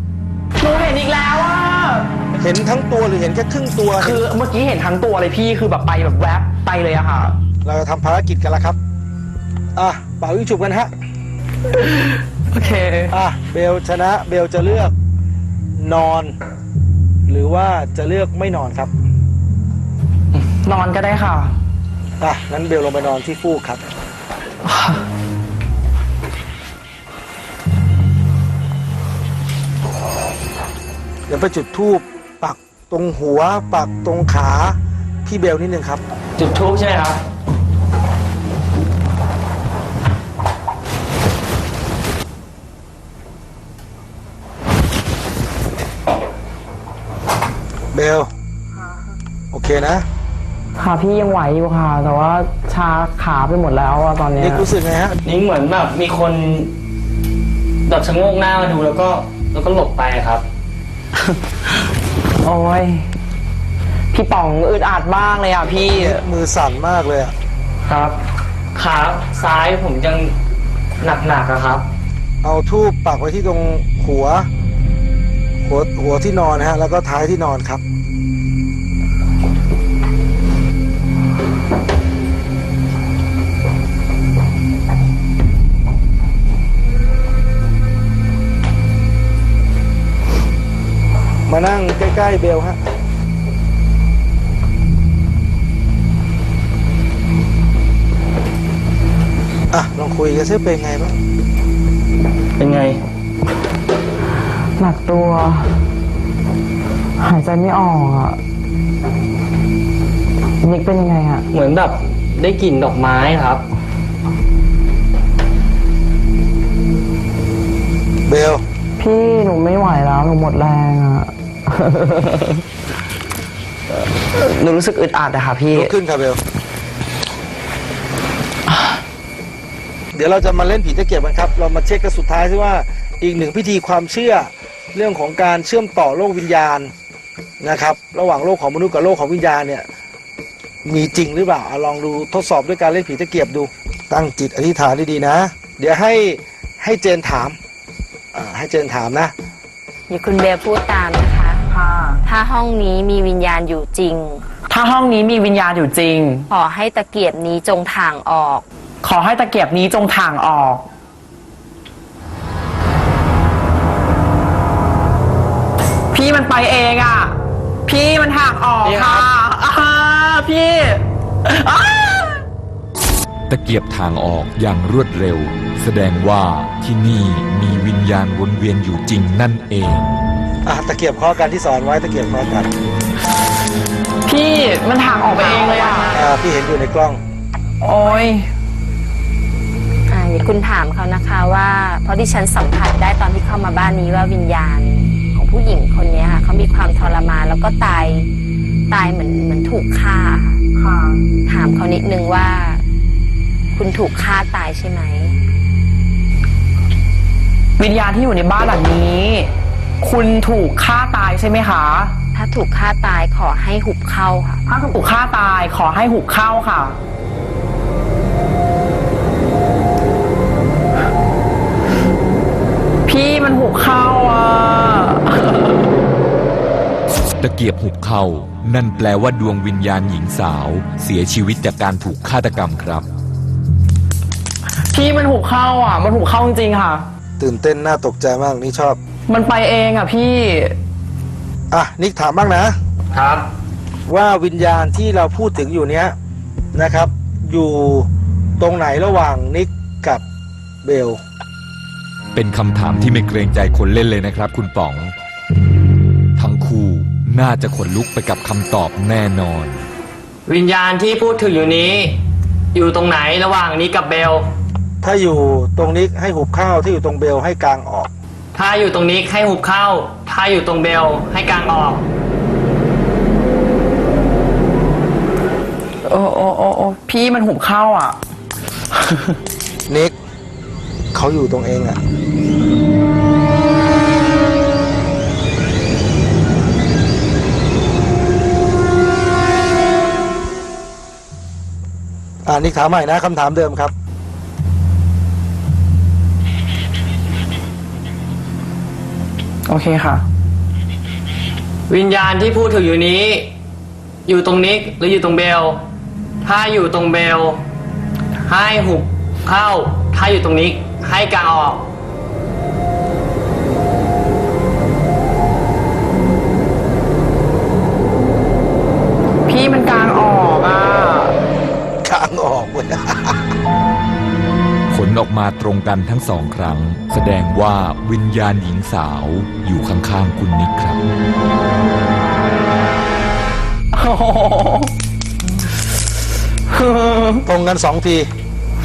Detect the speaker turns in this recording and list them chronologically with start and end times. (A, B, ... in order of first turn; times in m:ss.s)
0:00.6-0:02.1 A
0:02.4-0:04.2 B
0:04.0-0:07.4 A
0:07.6-0:08.8 B
0:09.8-0:10.9 B
0:11.7-0:13.1 A
0:13.1-0:14.9 B
0:15.8-0:16.4 B
0:17.3-0:18.9 B
0:20.6-0:21.5 A
0:22.2-0:23.8 B
0:31.3-0:36.0 B
0:36.4-0:37.2 C
0:47.9-0:48.3 B
0:49.5-0:50.0 B
0:50.8-0:54.7 A
0:54.4-0:55.2 B
0:55.2-0:56.7 C
0:57.9-1:00.4 C
1:02.4-1:03.1 A
1:04.1-1:06.2 A
1:05.8-1:07.3 B
1:07.9-1:08.2 C
1:08.8-1:10.3 C
1:11.0-1:11.9 C
1:12.4-1:14.5 B
1:15.6-1:17.8 B
1:31.5-1:32.8 B
1:39.7-1:41.1 B
1:42.6-1:43.0 C
1:44.8-1:45.8 A
1:47.2-1:48.4 A
1:50.6-1:51.5 A
1:51.5-1:53.6 C
1:58.3-1:58.6 B
1:59.0-2:02.6 A
2:04.2-2:05.9 A
2:05.7-2:06.4 B
2:10.1-2:16.9 B
2:17.6-2:19.9 B
2:20.8-2:27.6 B
2:28.3-2:29.3 B
2:30.1-2:31.7 D
2:31.8-2:32.2 A
2:32.2-2:34.5 D
2:34.7-2:36.5 A
2:36.5-2:38.6 D
2:39.0-2:40.9 A
2:46.1-2:52.4 A
2:48.8-2:49.3 C
2:53.5-3:00.1 E
3:00.6-3:02.7 B
3:04.3-3:06.1 A
3:06.1-3:07.2 B
3:07.8-3:08.5 A
3:10.1-3:18.3 D
3:18.9-3:20.6 D
3:20.8-3:21.2 A
3:21.5-3:22.8 D
3:23.7-3:25.4 D
3:27.8-3:32.1 A
3:32.3-3:34.6 D
3:34.7-3:37.0 A
3:43.1-3:45.9 A
3:47.4-3:53.1 E
3:54.9-3:57.0 A
3:57.4-3:59.0 B
3:59.3-4:00.7 A
4:01.7-4:02.7 B
4:03.1-4:03.5 C
4:04.1-4:06.2 B
4:06.7-4:08.1 B
4:08.6-4:10.2 B
4:10.8-4:11.2 B
4:12.3-4:15.1 E
4:16.4-4:19.8 E
4:20.5-4:22.2 C
4:22.7-4:24.5 C
4:25.0-4:28.1 B
4:28.6-4:32.0 C
4:36.0-4:38.2 A
4:39.0-4:39.3 A
4:39.9-4:40.1 B
4:41.1-4:42.0 B
4:52.5-4:53.9 B
4:59.7-5:00.2 A
5:01.9-5:03.5 C
5:04.3-5:05.8 C
5:06.4-5:07.6 C
5:08.5-5:11.9 C
5:19.5-5:21.4 A
5:22.0-5:23.4 B
5:24.9-5:31.0 E
5:33.9-5:34.9 A
5:36.7-5:37.4 A
5:37.4-5:38.3 B